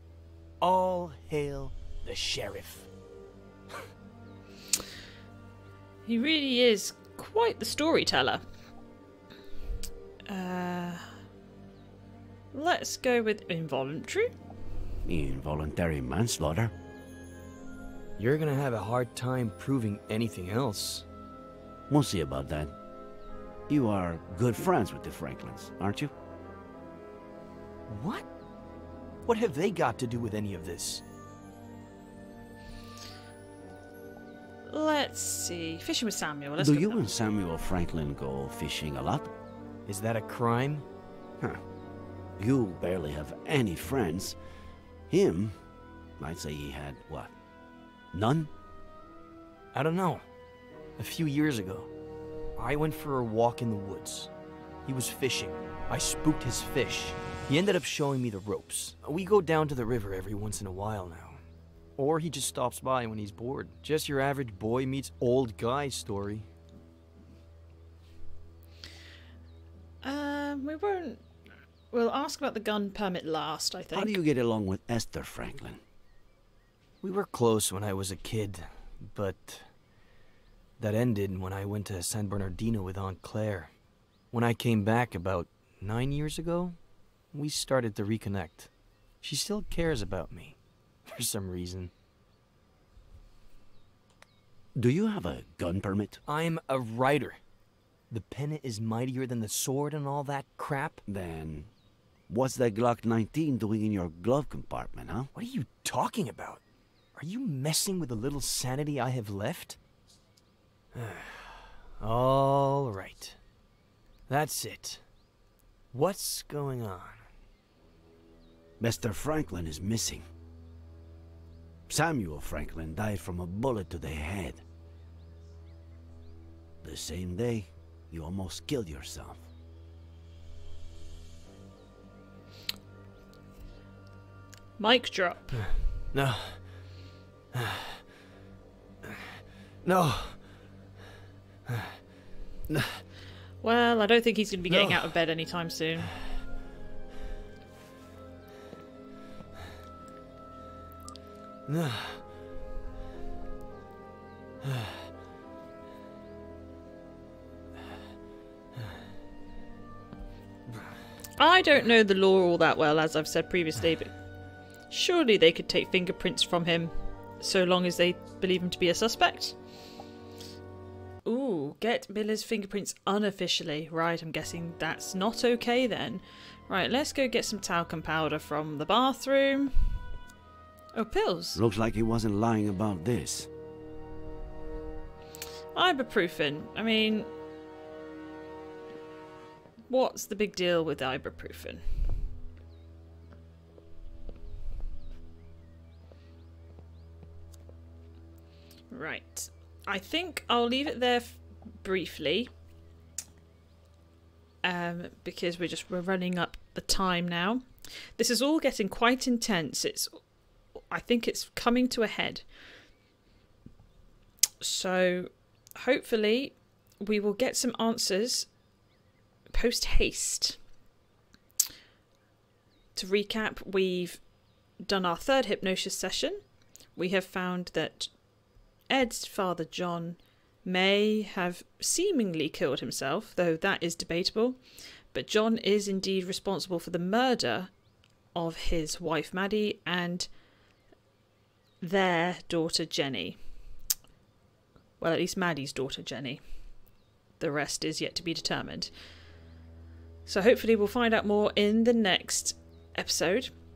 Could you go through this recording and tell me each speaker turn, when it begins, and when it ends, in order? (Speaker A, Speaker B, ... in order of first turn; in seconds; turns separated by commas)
Speaker A: 0.6-2.9, Speaker B: 6.1-8.4, Speaker B: 10.3-11.1, Speaker B: 12.5-14.3, Speaker C: 15.1-16.7, Speaker A: 18.2-21.1, Speaker C: 21.9-22.7, Speaker C: 23.7-26.1, Speaker A: 27.9-28.3, Speaker A: 29.2-31.0, Speaker B: 34.7-37.0, Speaker C: 36.6-39.3, Speaker A: 39.9-40.9, Speaker C: 42.4-44.4, Speaker C: 45.1-45.6, Speaker C: 46.2-47.3, Speaker C: 48.1-48.5, Speaker A: 49.7-50.2, Speaker A: 51.0-51.9, Speaker A: 52.6-54.3, Speaker A: 54.9-61.4, Speaker A: 62.0-66.5, Speaker B: 70.0-71.2, Speaker B: 71.9-74.2, Speaker C: 73.9-75.8, Speaker A: 77.0-79.7, Speaker A: 80.8-83.7, Speaker A: 84.3-86.8, Speaker A: 87.3-88.7, Speaker A: 89.2-91.9, Speaker C: 94.8-96.2, Speaker A: 96.3-97.4, Speaker A: 98.1-101.0, Speaker C: 101.1-101.7, Speaker C: 102.3-105.3, Speaker A: 105.3-106.6, Speaker A: 107.2-109.8, Speaker A: 110.9-113.4, Speaker A: 114.3-115.0, Speaker A: 115.9-117.2, Speaker C: 118.8-120.2, Speaker C: 121.9-124.6, Speaker C: 126.8-129.5, Speaker B: 134.8-135.6, Speaker A: 135.6-136.6, Speaker A: 137.5-138.0, Speaker A: 139.8-140.4, Speaker A: 141.7-142.0, Speaker A: 142.7-143.0, Speaker B: 143.6-146.1, Speaker A: 144.7-145.1, Speaker A: 151.7-152.2, Speaker A: 154.6-155.1, Speaker A: 160.7-161.0, Speaker B: 161.4-164.1, Speaker B: 164.9-169.6, Speaker B: 171.2-180.0, Speaker B: 180.9-181.6, Speaker C: 181.6-183.5, Speaker B: 185.7-187.3, Speaker B: 189.9-191.8, Speaker B: 198.9-202.5, Speaker B: 204.6-210.2, Speaker B: 210.9-212.5, Speaker B: 214.6-218.5, Speaker B: 219.5-220.6, Speaker B: 222.9-224.2, Speaker B: 224.8-226.4, Speaker B: 226.9-228.1, Speaker B: 228.9-234.6, Speaker B: 235.1-237.7, Speaker B: 238.3-240.3, Speaker B: 241.8-243.4, Speaker B: 245.0-246.4, Speaker B: 247.4-248.9, Speaker B: 250.3-253.5